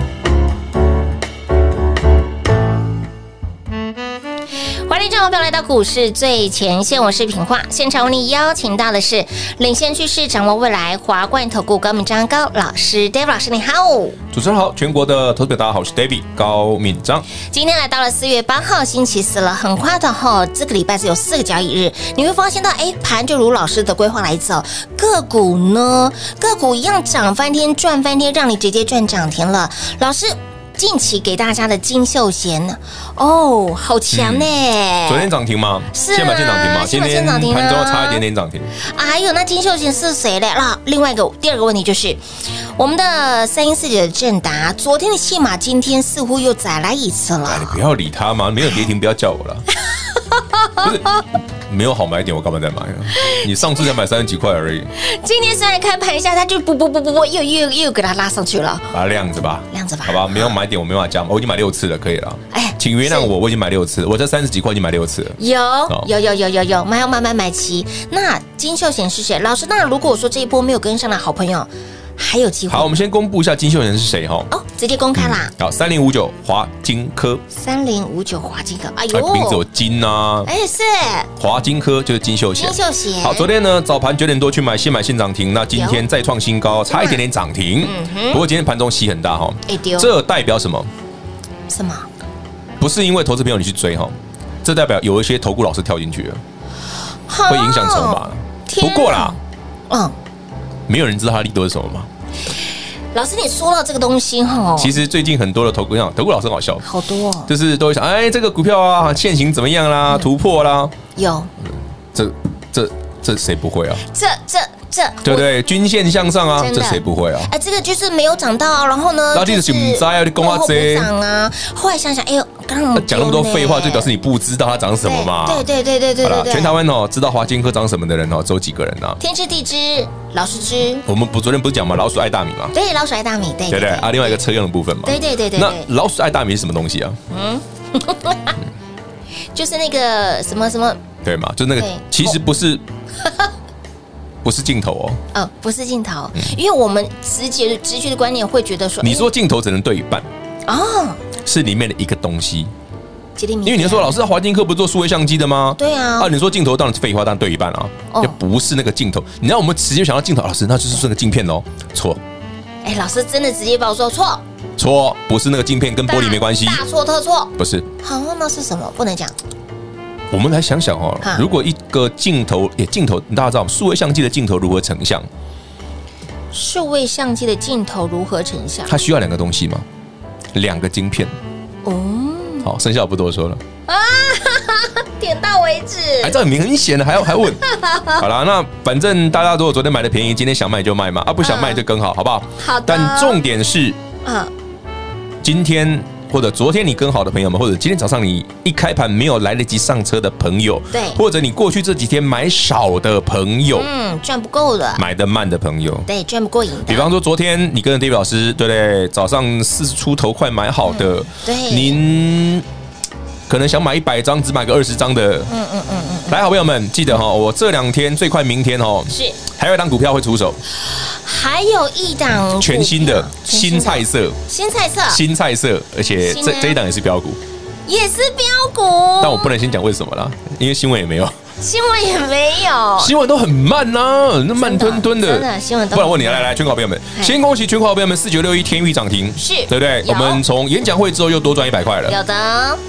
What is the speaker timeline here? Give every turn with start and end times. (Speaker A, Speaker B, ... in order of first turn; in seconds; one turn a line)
Speaker A: 4.9-14.2
Speaker B: 14.3-17.3
Speaker A: 17.4-35.3
Speaker B: 34.1-34.5
Speaker B: 35.0-38.7
Speaker A: 35.9-38.2
Speaker A: 38.8-42.2
Speaker A: 42.8-47.8
Speaker B: 47.4-49.6
Speaker A: 49.9-51.2
Speaker B: 50.8-51.0
Speaker B: 51.7-54.9
Speaker A: 53.2-53.4
Speaker A: 55.0-58.9
Speaker B: 58.9-65.4
Speaker A: 59.7-60.6
Speaker A: 62.5-63.3
Speaker A: 65.4-73.0
Speaker B: 72.7-74.5
Speaker A: 74.5-75.5
Speaker B: 75.1-77.4
Speaker A: 77.5-79.6
Speaker B: 79.1-80.5
Speaker A: 80.5-81.3
Speaker B: 81.4-90.9
Speaker A: 82.6-83.5
Speaker A: 85.7-86.0
Speaker A: 86.9-87.2
Speaker A: 87.8-88.4
Speaker A: 89.7-90.1
Speaker A: 91.7-92.1
Speaker B: 92.8-96.4
Speaker A: 97.3-99.4
Speaker B: 97.5-99.3
Speaker A: 99.9-100.2
Speaker B: 100.9-102.1
Speaker A: 103.1-104.9
Speaker B: 104.8-106.8
Speaker A: 106.8-107.5
Speaker B: 107.5-110.9
Speaker A: 111.1-111.5
Speaker B: 111.7-114.0
Speaker A: 114.0-115.5
Speaker B: 115.2-117.5
Speaker A: 116.6-124.1
Speaker B: 119.3-121.1
Speaker B: 122.9-125.7
Speaker A: 125.0-126.8
Speaker B: 126.2-129.2
Speaker A: 129.2-131.0
Speaker B: 131.1-132.7
Speaker A: 132.7-134.4
Speaker B: 133.7-137.2
Speaker A: 135.0-135.9
Speaker A: 137.3-138.6
Speaker A: 139.5-141.0
Speaker B: 141.2-142.8
Speaker A: 141.8-142.4
Speaker A: 143.2-143.5
Speaker B: 144.4-145.2
Speaker A: 145.3-149.3
Speaker B: 149.0-150.3
Speaker A: 150.7-151.2
Speaker B: 151.4-152.7
Speaker A: 153.4-154.2
Speaker B: 153.6-162.2
Speaker A: 155.8-156.3
Speaker A: 158.1-158.4
Speaker A: 162.8-164.4
Speaker B: 164.8-166.8
Speaker A: 166.1-169.3
Speaker B: 167.6-167.9
Speaker B: 170.3-175.3
Speaker A: 176.5-178.9
Speaker B: 178.9-179.8
Speaker B: 180.5-181.3
Speaker A: 181.8-182.7
Speaker B: 182.6-183.6
Speaker A: 183.9-186.3
Speaker B: 186.2-187.6
Speaker A: 187.4-188.2
Speaker B: 188.2-194.0
Speaker A: 191.4-191.8
Speaker A: 192.6-193.4
Speaker A: 194.2-194.5
Speaker B: 195.4-203.9
Speaker A: 200.9-201.2
Speaker A: 203.7-205.0
Speaker B: 204.9-206.1
Speaker A: 206.1-207.1
Speaker B: 206.9-212.7
Speaker A: 210.8-212.0
Speaker B: 213.5-215.5
Speaker A: 215.5-216.4
Speaker B: 216.3-220.6
Speaker A: 219.1-219.4
Speaker A: 220.8-225.2
Speaker B: 222.5-224.4
Speaker B: 225.1-227.4
Speaker A: 226.2-226.8
Speaker A: 227.9-229.5
Speaker B: 229.2-231.4
Speaker A: 231.6-233.1
Speaker B: 233.0-242.2
Speaker A: 234.6-236.5
Speaker A: 237.1-237.4
Speaker A: 239.4-240.4
Speaker A: 242.1-242.8